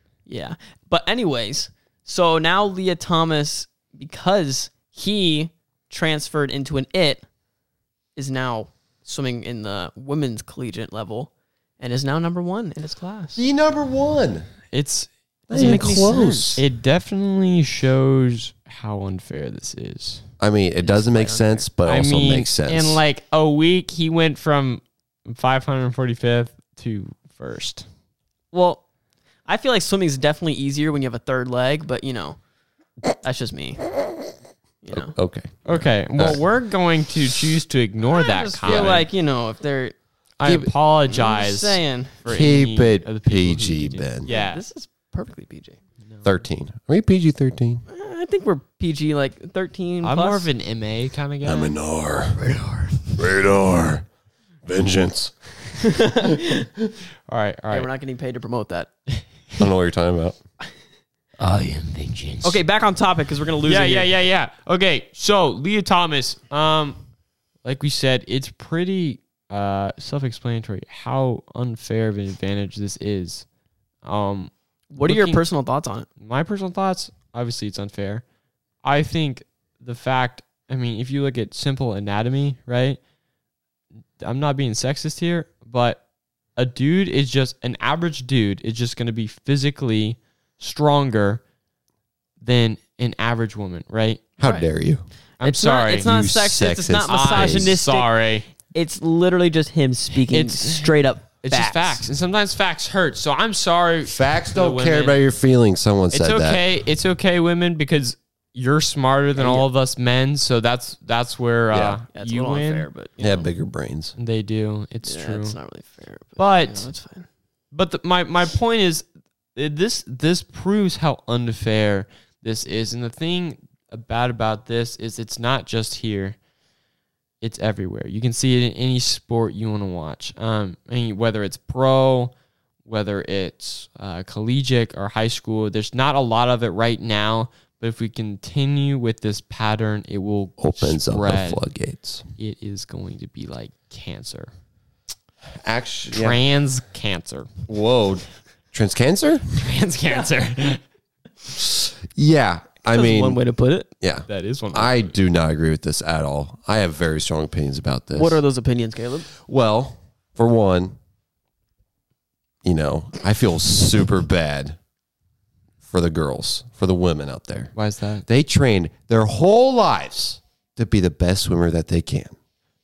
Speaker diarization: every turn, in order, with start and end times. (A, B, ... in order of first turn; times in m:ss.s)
0:00.3-0:07.2 A
0:08.2-0:13.4 A
0:13.4-0:14.5 B
0:14.7-0:20.2 C
0:15.5-0:16.6 B
0:15.5-0:16.4 A
0:20.4-0:23.0 B
0:20.8-0:21.6 A
0:21.8-0:27.9 C
0:28.5-0:28.8 A
0:29.5-0:32.4 A
0:33.2-0:33.9 A
0:34.8-0:35.2 A
0:34.9-0:36.4 B
0:35.6-0:39.1 C
0:38.2-0:40.0 A
0:38.7-0:39.0 B
0:40.4-0:44.6 C
0:40.4-0:40.7 B
0:41.1-0:42.2 A
0:42.3-0:44.3 B
0:44.3-0:45.8 A
0:46.2-0:47.8 B
0:47.9-0:50.5 A
0:50.0-0:51.8 C
0:51.4-0:52.4 B
0:52.4-0:53.2 A
0:53.2-0:54.0 B
0:54.7-0:55.4 B
0:55.8-0:56.7 A
0:57.3-0:57.9 C
0:57.7-0:58.9 A
0:59.6-1:00.4 B
1:01.4-1:02.6 C
1:02.4-1:04.1 A
1:03.6-1:07.0 C
1:07.6-1:13.5 C
1:14.0-1:15.4 C
1:14.9-1:16.1 A
1:16.2-1:18.2 C
1:18.8-1:23.0 C
1:24.2-1:26.0 C
1:26.6-1:31.4 C
1:32.4-1:34.2 C
1:34.4-1:35.0 B
1:34.4-1:34.7 A
1:35.4-1:36.1 C
1:35.4-1:38.1 A
1:36.0-1:37.8 B
1:37.1-1:38.4 C
1:38.7-1:42.0 A
1:40.3-1:45.2 C
1:44.0-1:46.6 B
1:46.1-1:52.9 C
1:49.4-1:49.7 A
1:51.7-1:52.0 B
1:52.1-1:53.5 A
1:53.2-1:54.1 B
1:54.2-1:55.6 C
1:55.0-1:57.3 A
1:56.4-1:56.9 C
1:57.7-2:06.4 C
2:07.4-2:12.3 C
2:12.9-2:21.6 C
2:20.6-2:22.2 B
2:22.4-2:24.5 C
2:25.6-2:26.4 B
2:26.1-2:27.5 C
2:27.7-2:29.5 B
2:29.6-2:30.8 C
2:30.1-2:30.5 A
2:31.6-2:33.4 B
2:32.9-2:33.9 A
2:34.0-2:38.4 B
2:34.3-2:35.2 C
2:38.2-2:39.3 A
2:39.3-2:41.0 B
2:42.6-2:44.8 B
2:45.8-2:47.7 B
2:47.8-2:48.2 C
2:48.2-2:52.4 B